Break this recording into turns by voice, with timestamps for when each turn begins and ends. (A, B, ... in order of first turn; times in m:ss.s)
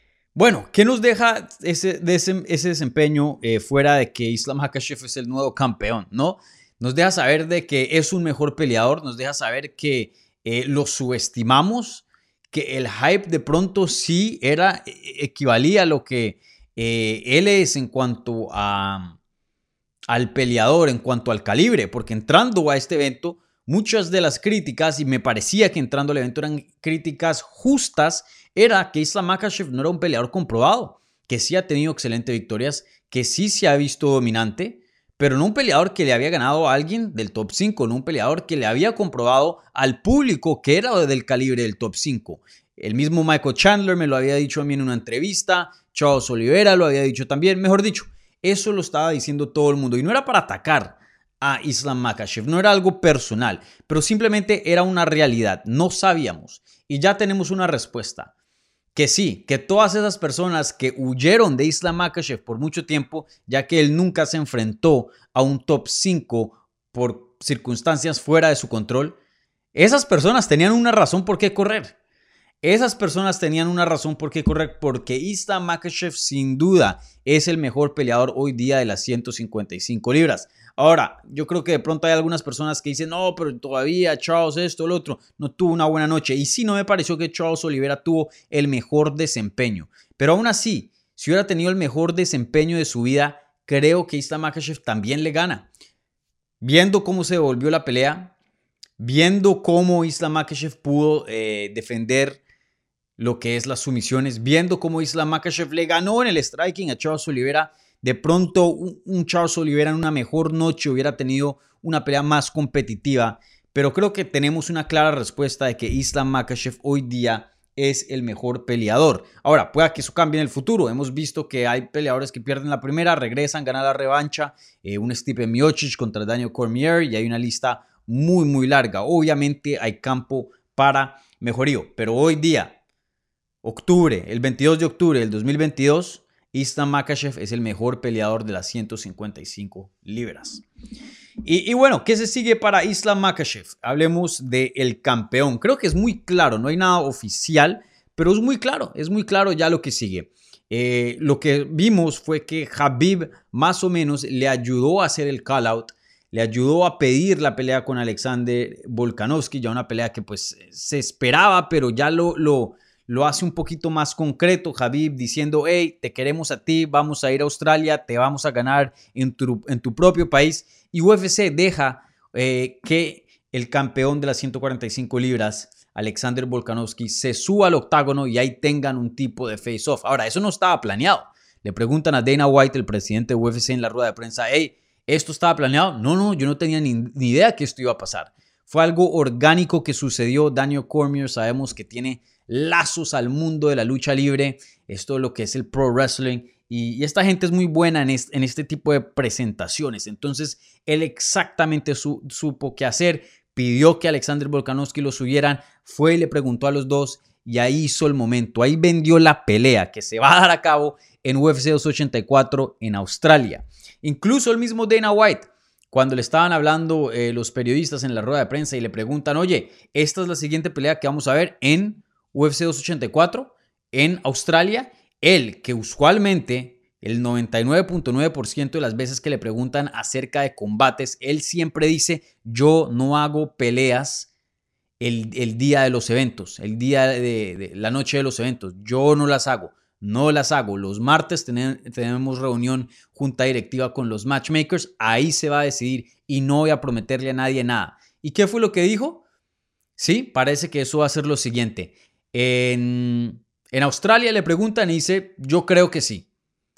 0:00.3-0:19.2 A
0:20.1-0:58.3 A
0:58.9-1:09.2 A
1:09.7-1:11.9 A
1:12.6-1:35.7 A
1:36.6-1:38.3 A
1:39.0-1:42.4 A
1:43.2-2:12.8 A
2:13.6-2:20.6 A
2:21.4-3:54.3 A
3:55.0-4:09.2 A
4:10.0-4:16.2 A